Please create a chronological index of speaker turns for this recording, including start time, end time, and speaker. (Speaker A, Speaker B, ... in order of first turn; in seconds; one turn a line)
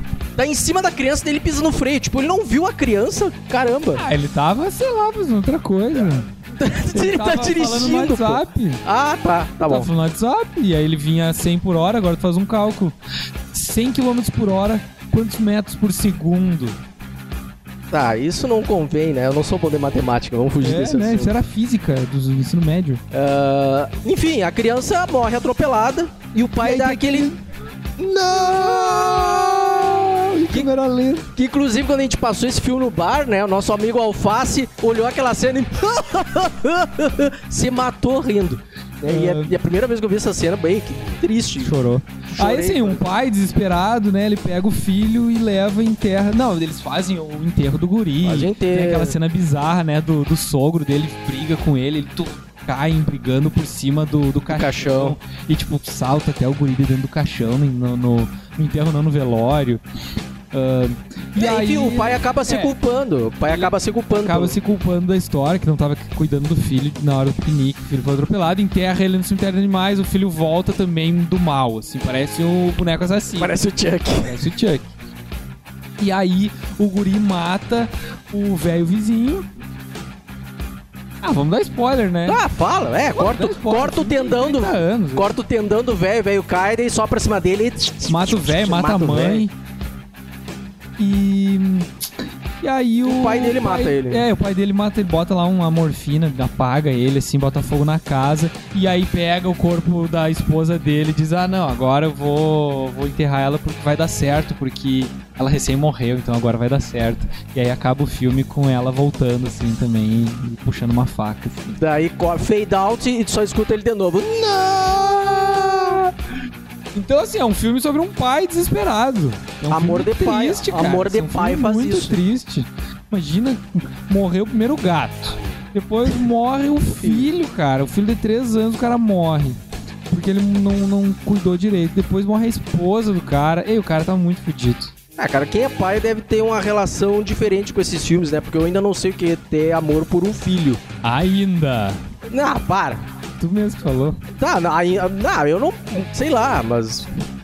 Speaker A: 0.3-4.0
Speaker B: 4.0-6.3
Speaker A: 6.0-9.9
Speaker B: 6.9-8.8
Speaker B: 9.7-12.9
Speaker B: 13.5-16.8
Speaker A: 17.9-21.3
Speaker B: 20.6-23.0
Speaker A: 23.1-27.3
Speaker B: 26.6-27.4
Speaker A: 28.0-30.7
Speaker B: 30.2-31.3
Speaker A: 31.4-41.8
Speaker B: 39.0-39.5
Speaker B: 41.6-59.8
Speaker A: 42.3-43.0
Speaker A: 48.2-49.1
Speaker A: 54.5-55.1
Speaker B: 60.5-62.7
Speaker A: 61.4-64.5
Speaker B: 63.5-73.5
Speaker A: 73.4-74.4
Speaker B: 74.2-74.9
Speaker B: 76.0-79.4
Speaker B: 81.2-82.4
Speaker A: 82.2-89.4
Speaker B: 83.1-85.3
Speaker B: 88.1-89.5
Speaker B: 91.0-91.9
Speaker B: 92.6-111.8
Speaker A: 93.0-94.2
Speaker A: 111.8-116.0
Speaker B: 115.2-116.1
Speaker B: 116.9-134.9
Speaker A: 119.7-122.2
Speaker A: 127.0-127.3
Speaker A: 135.2-140.8
Speaker B: 141.0-142.0
Speaker A: 142.3-143.0
Speaker B: 143.4-144.2
Speaker A: 144.3-147.2